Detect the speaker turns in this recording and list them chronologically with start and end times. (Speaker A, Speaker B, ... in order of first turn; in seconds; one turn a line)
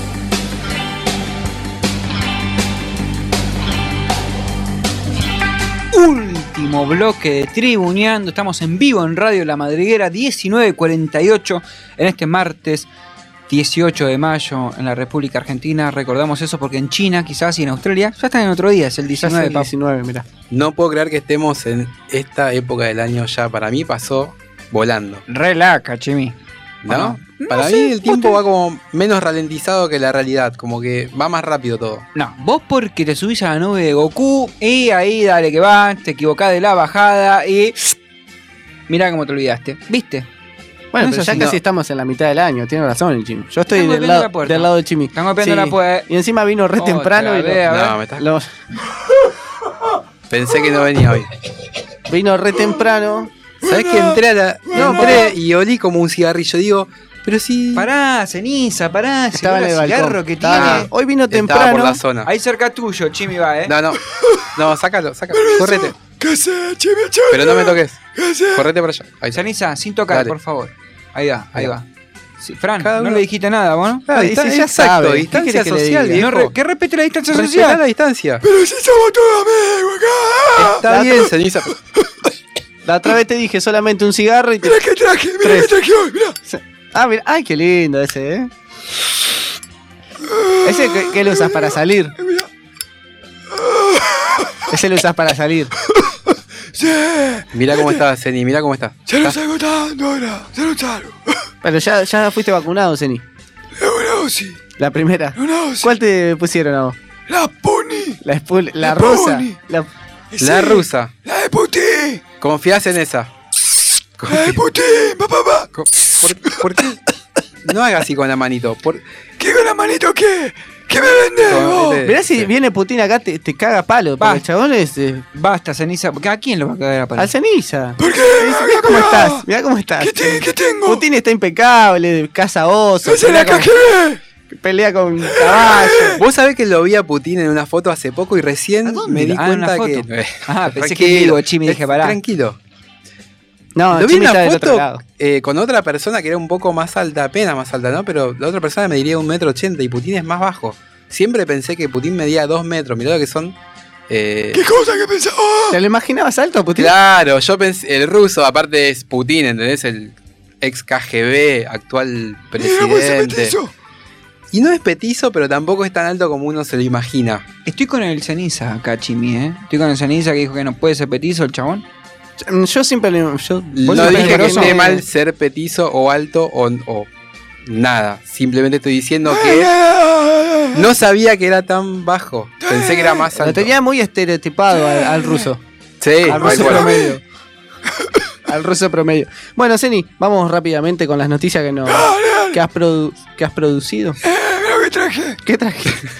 Speaker A: 5.9-12.9
Speaker A: 13.5-19.7
Speaker B: 19.2-20.3
Speaker C: 20.5-25.2
Speaker A: 25.3-26.4
Speaker C: 26.8-32.0
Speaker A: 26.9-28.4
Speaker A: 32.1-37.9
Speaker A: 38.9-40.3
Speaker B: 40.9-48.5
Speaker A: 41.0-41.5
Speaker A: 43.7-46.1
Speaker A: 46.8-48.0
Speaker C: 47.6-48.2
Speaker C: 50.3-51.3
Speaker B: 52.1-53.3
Speaker C: 53.6-57.9
Speaker D: 53.7-54.1
Speaker B: 54.7-55.3
Speaker A: 57.7-60.9
Speaker B: 59.3-62.0
Speaker C: 60.5-62.3
Speaker A: 62.2-63.7
Speaker C: 63.7-64.0
Speaker D: 64.1-64.4
Speaker C: 64.5-66.0
Speaker D: 65.3-68.7
Speaker C: 67.3-69.4
Speaker A: 69.3-71.8
Speaker C: 70.1-70.3
Speaker A: 72.4-74.0
Speaker C: 72.8-73.2
Speaker C: 74.1-76.5
Speaker B: 74.1-76.2
Speaker A: 76.2-77.8
Speaker C: 77.3-78.4
Speaker D: 78.4-80.8
Speaker C: 80.6-81.7
Speaker B: 80.9-81.2
Speaker B: 82.8-84.8
Speaker D: 84.6-86.3
Speaker B: 85.4-85.7
Speaker B: 86.5-88.5
Speaker D: 90.3-91.5
Speaker B: 90.6-92.1
Speaker D: 92.2-92.5
Speaker D: 93.5-94.5
Speaker B: 94.7-95.7
Speaker D: 96.7-97.9
Speaker C: 97.5-99.3
Speaker D: 99.1-101.3
Speaker B: 101.6-103.2
Speaker D: 103.8-104.6
Speaker B: 104.8-107.0
Speaker D: 105.4-105.9
Speaker D: 107.3-108.2
Speaker B: 108.2-109.9
Speaker D: 108.8-109.5
Speaker D: 110.3-112.3
Speaker C: 110.4-111.1
Speaker C: 112.3-113.3
Speaker C: 114.2-114.6
Speaker D: 114.3-115.7
Speaker C: 115.7-117.0
Speaker C: 117.6-119.0
Speaker D: 119.4-122.0
Speaker C: 121.5-122.5
Speaker B: 122.0-125.2
Speaker A: 125.3-127.3
Speaker B: 127.2-133.7
Speaker D: 128.0-129.4
Speaker D: 130.0-131.0
Speaker D: 133.0-134.2
Speaker B: 134.5-136.2
Speaker D: 135.3-136.1
Speaker C: 136.2-142.6
Speaker A: 138.8-142.2
Speaker B: 143.8-145.0
Speaker C: 143.9-153.6
Speaker C: 154.1-154.6
Speaker D: 154.5-155.8
Speaker B: 155.7-156.9
Speaker C: 156.8-163.5
Speaker D: 162.6-163.7
Speaker C: 164.5-167.4
Speaker A: 167.7-171.8
Speaker B: 172.4-175.0
Speaker C: 173.7-177.1
Speaker A: 173.8-175.0
Speaker C: 177.7-179.7
Speaker D: 179.3-180.8
Speaker C: 180.7-183.7
Speaker D: 182.7-183.2
Speaker B: 183.3-185.6
Speaker D: 184.8-185.4
Speaker C: 186.0-187.1
Speaker B: 186.2-187.2
Speaker B: 188.5-194.2
Speaker D: 191.9-192.6
Speaker D: 194.2-195.4
Speaker B: 195.4-196.1